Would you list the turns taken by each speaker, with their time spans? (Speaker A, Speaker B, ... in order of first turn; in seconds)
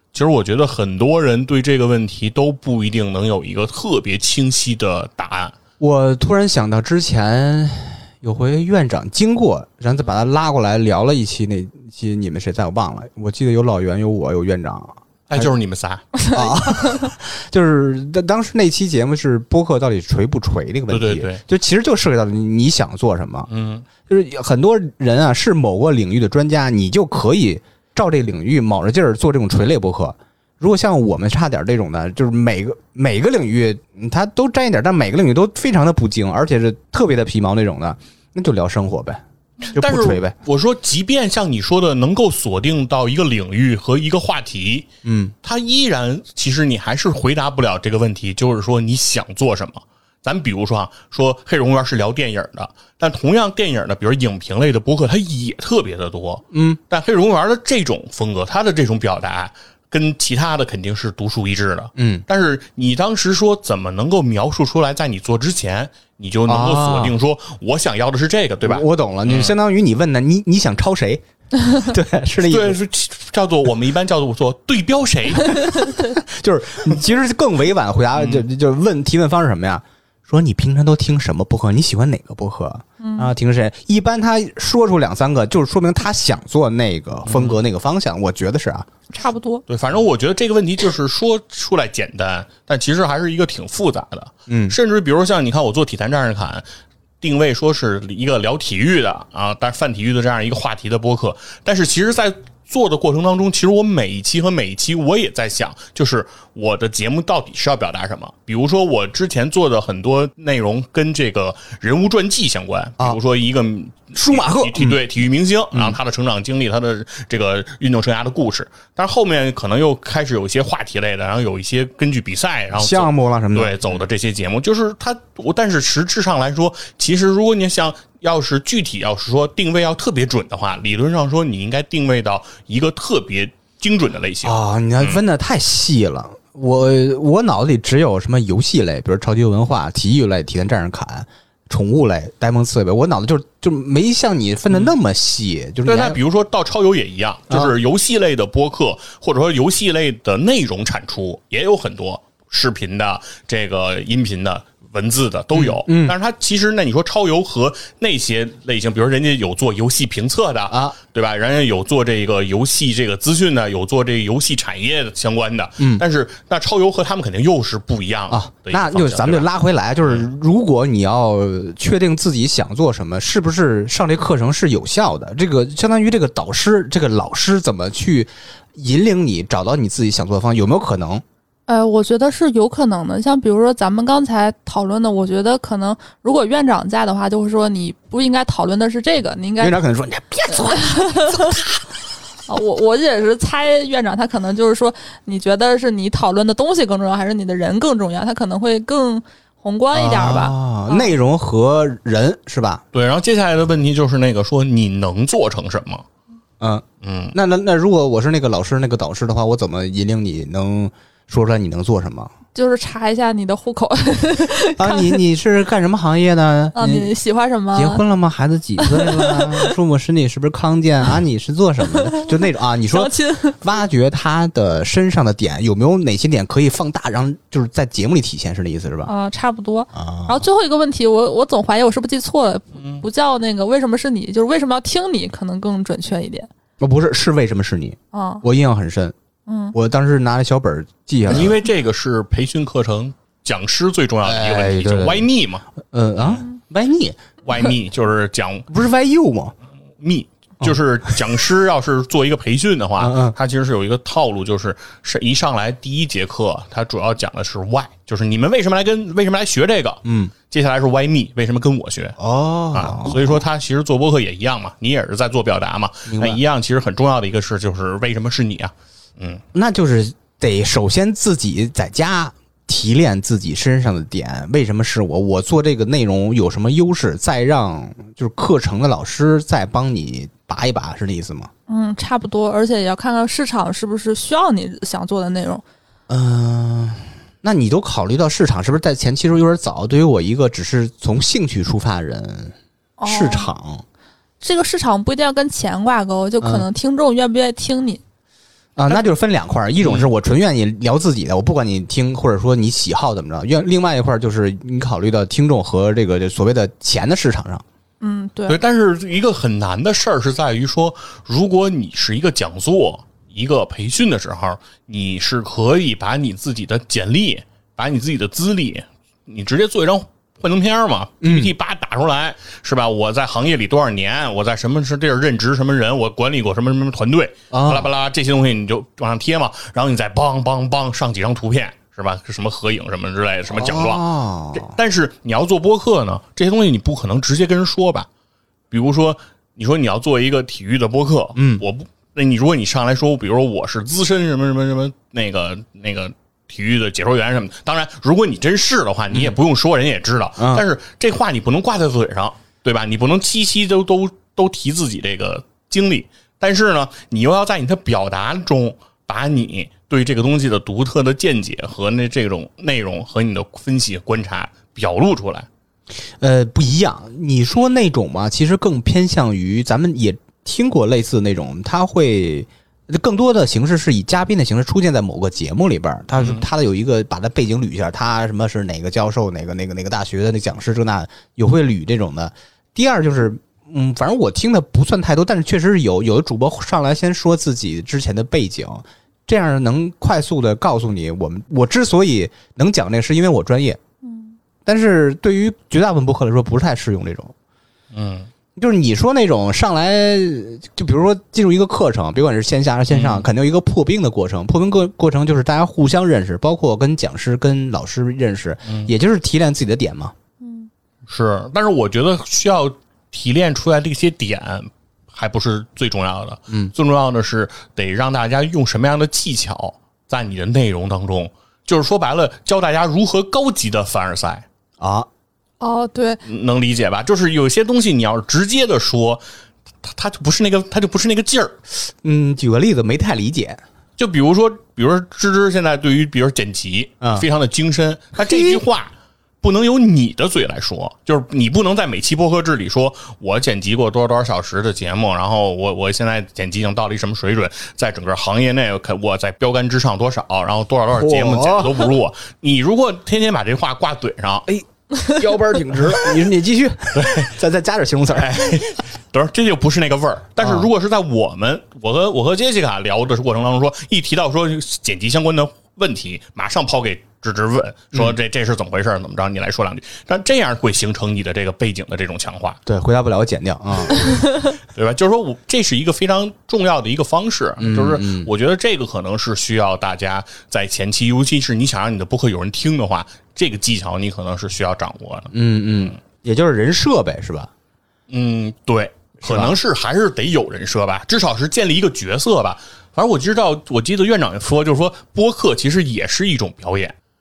Speaker A: 0.1-5.5, 15.3-16.1, 20.9-21.4, 23.5-23.9, 39.7-44.9, 45.4-69.5, 72.5-75.9, 78.2-78.5, 87.3-87.6, 89.7-96.7, 97.2-135.2, 145.9-169.5, 202.9-206.1, 207.0-207.3, 232.8-233.0, 241.3-245.7, 247.4-248.7, 250.0-262.2, 262.7-269.4, 299.8-300.1, 308.5-334.0, 334.6-338.1, 338.7-365.5, 376.2-376.5, 397.9-398.3, 402.9-403.2, 408.7-408.9, 411.1-424.5, 426.2-429.2, 429.8-431.6, 434.0-454.5, 456.9-457.3, 458.1-472.6, 474.1-486.0, 488.1-496.9
Speaker B: 5.8-15.5, 16.3-23.5, 24.1-40.4, 45.0-45.3, 56.5-56.8, 62.0-62.2, 66.5-67.2, 68.6-72.8, 76.0-88.9, 94.5-94.8, 114.2-115.0, 115.7-116.0, 122.7-124.0, 134.4-146.2, 155.5-156.2, 160.7-161.0, 165.8-166.0, 168.3-181.2, 189.6-191.8, 199.9-202.8, 206.6-212.3, 214.8-217.1, 217.7-229.1, 229.9-230.4, 236.8-239.2, 239.7-241.6, 244.2-245.3, 245.9-247.2, 248.7-249.5, 253.0-253.4, 260.1-260.3, 262.2-263.4, 266.1-266.4, 269.5-281.5, 286.1-292.6, 293.1-293.8, 298.8-307.6, 321.2-321.5, 327.5-327.9, 333.5-334.8, 341.4-341.6, 350.4-350.7, 366.2-393.8, 394.7-397.3, 398.6-410.1, 424.8-425.1, 432.0-433.6, 437.0-437.3, 438.1-438.6, 450.9-451.9, 454.5-458.6, 460.4-460.7, 472.6-474.1, 477.6-478.3, 485.3-487.5, 489.2-489.6
Speaker C: 16.2-17.1, 83.0-83.3, 89.1-89.6, 181.7-189.8, 190.5-191.6, 192.5-201.1, 212.6-215.2, 216.8-218.0, 218.8-219.7, 222.0-223.6, 229.1-236.5, 238.1-238.4, 239.5-239.8, 281.7-285.6, 293.0-293.5, 294.4-298.0, 308.0-308.6, 394.0-394.4, 410.4-410.7, 425.6-426.2